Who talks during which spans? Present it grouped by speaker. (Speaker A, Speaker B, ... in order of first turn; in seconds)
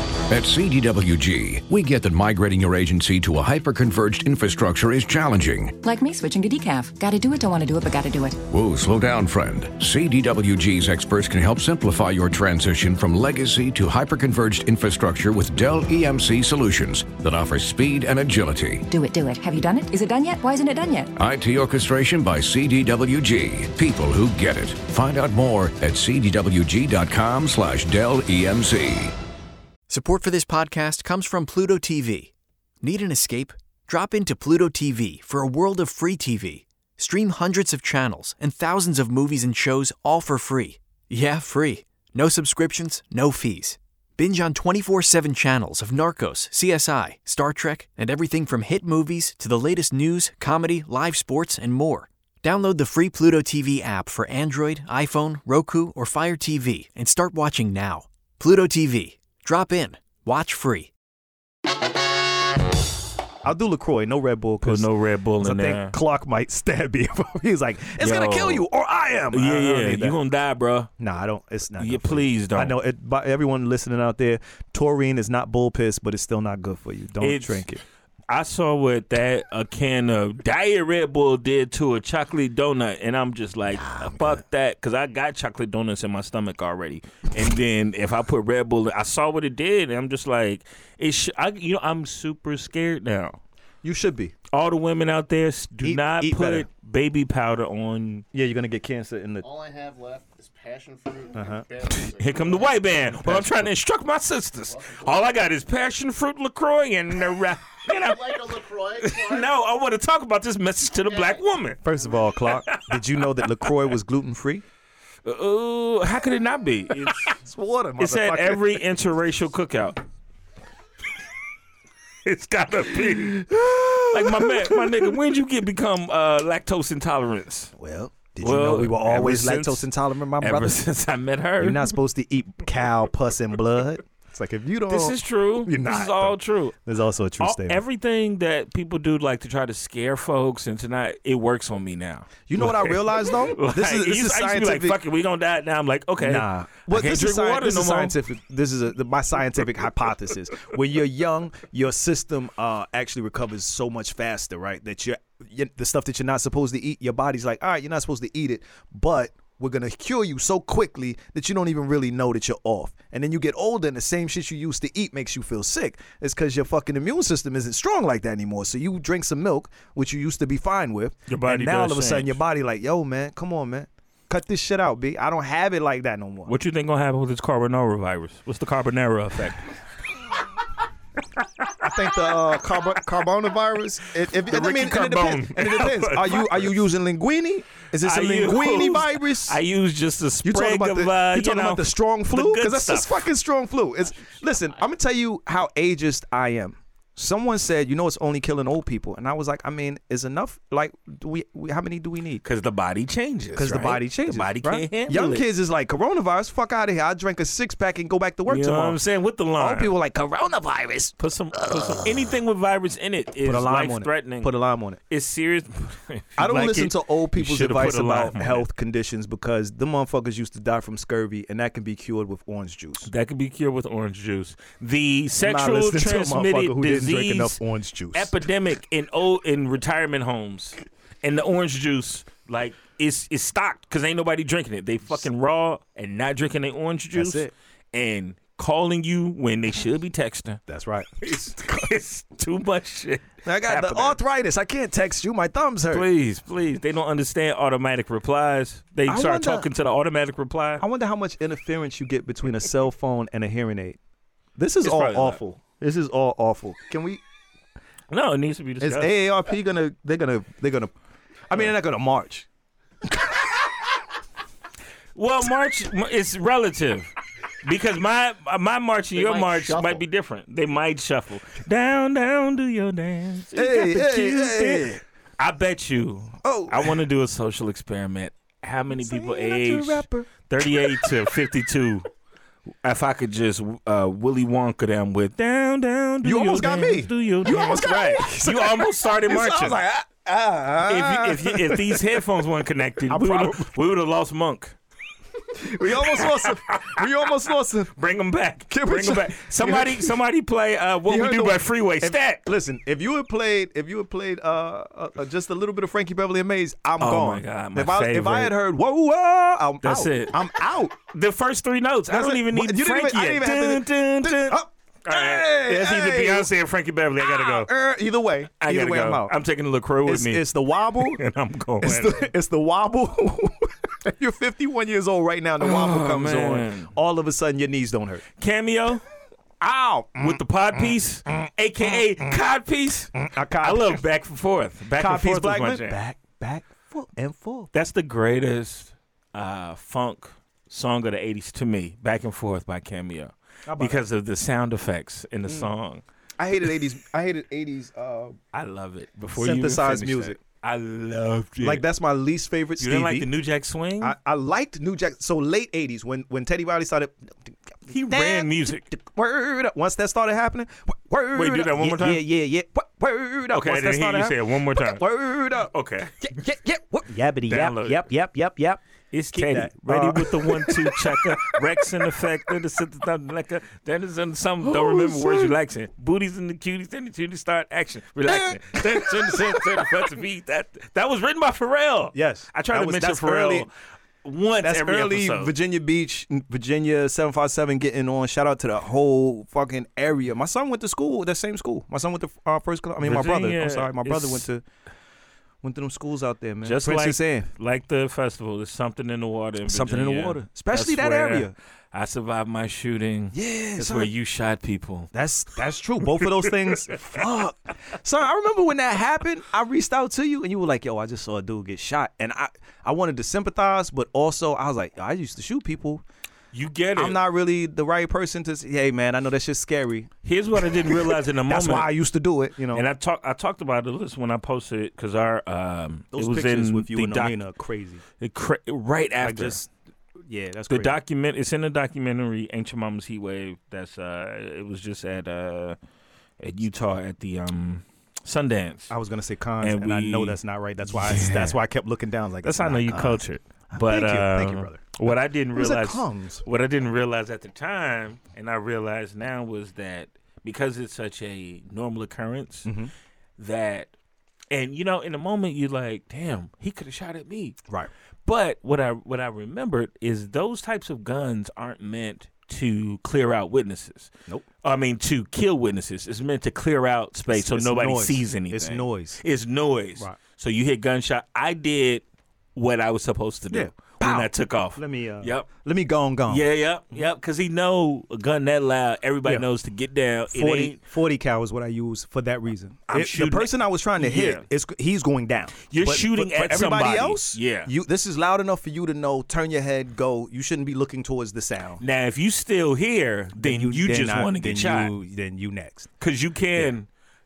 Speaker A: 0.3-5.8, 8.5-18.8, 21.2-29.1
Speaker B: 5.8-8.4, 18.9-21.1
Speaker C: 29.9-60.9
Speaker D: 63.4-64.9, 65.4-70.2, 71.0-77.8, 83.7-84.4, 93.8-94.3, 95.8-96.7, 98.3-99.5, 101.3-101.7, 103.1-103.7, 111.8-114.6, 117.0-118.8, 123.4-125.2, 127.8-130.8, 131.6-137.8, 142.5-145.0, 146.2-176.5, 181.8-189.6, 190.4-202.4, 203.5-209.0, 209.6-212.1, 213.4-215.0, 216.4-223.1, 225.4-228.3, 237.1-237.5, 240.7-241.3, 243.4-246.1, 249.1-249.7, 250.8-254.0, 254.6-257.2, 258.8-260.9, 261.5-262.5, 263.1-263.4, 273.5-275.0, 276.4-277.0, 278.9-280.3, 286.2-292.2, 293.1-293.7, 295.5-297.9, 298.7-300.2, 301.1-311.0, 312.1-316.5, 317.2-319.4, 320.1-321.2, 321.8-328.2, 329.6-330.9, 331.8-332.3, 333.1-334.0, 335.0-337.7, 343.7-344.0, 346.4-348.4, 349.4-350.4, 351.6-353.3, 354.0-368.8, 369.3-371.8, 374.6-375.6, 378.3-379.8, 382.1-383.7, 384.6-394.6, 395.6-397.5, 399.7-401.5, 403.3-404.1, 405.1-416.0, 416.9-422.9, 426.1-428.0, 429.2-429.7, 430.3-431.0, 438.9-445.0, 445.5-446.4, 452.7-452.9, 467.3-469.2, 473.5-476.5, 480.3-491.8, 493.4-495.9
Speaker E: 64.6-66.0, 68.0-68.7, 69.3-70.9, 71.8-72.8, 77.2-77.7, 78.3-93.4, 94.5-98.2, 102.0-108.5, 109.0-111.8, 112.5-113.0, 115.2-117.3, 118.0-120.0, 122.2-123.5, 124.1-127.7, 128.4-129.9, 130.4-131.9, 134.9-136.8, 137.4-148.2, 171.3-172.4, 176.5-179.7, 184.4-186.7, 188.0-193.2, 202.4-205.5, 208.5-209.9, 211.2-214.5, 215.1-218.7, 223.0-227.6, 228.1-240.6, 241.2-244.2, 245.9-250.8, 254.8-255.4, 258.1-259.1, 265.2-267.1, 267.6-282.1, 282.8-289.8, 290.9-294.8, 296.1-297.0, 297.9-302.5, 307.0-308.5, 309.8-310.4, 311.0-317.7, 318.6-320.4, 321.0-322.3, 325.6-326.9, 328.4-329.0, 330.2-336.0, 337.7-346.0, 348.5-351.8, 352.8-354.1, 357.9-358.9, 361.3-362.2, 363.5-365.1, 365.7-366.3, 367.5-368.1, 369.1-383.7, 384.2-385.5, 393.0-394.5, 396.6-405.1, 416.5-417.2, 420.2-421.9, 422.7-427.4, 428.2-429.6, 430.7-435.8, 436.4-438.9, 439.6-440.4, 440.9-441.6, 442.4-452.7, 453.4-453.9, 454.5-457.6, 458.3-464.1, 464.6-472.0, 472.6-475.5, 476.3-480.8, 482.9-484.5, 485.7-487.7, 491.8-494.9, 496.0-496.9
Speaker F: 99.4-103.2, 104.7-105.4, 107.9-109.5, 110.9-112.2, 269.1-270.0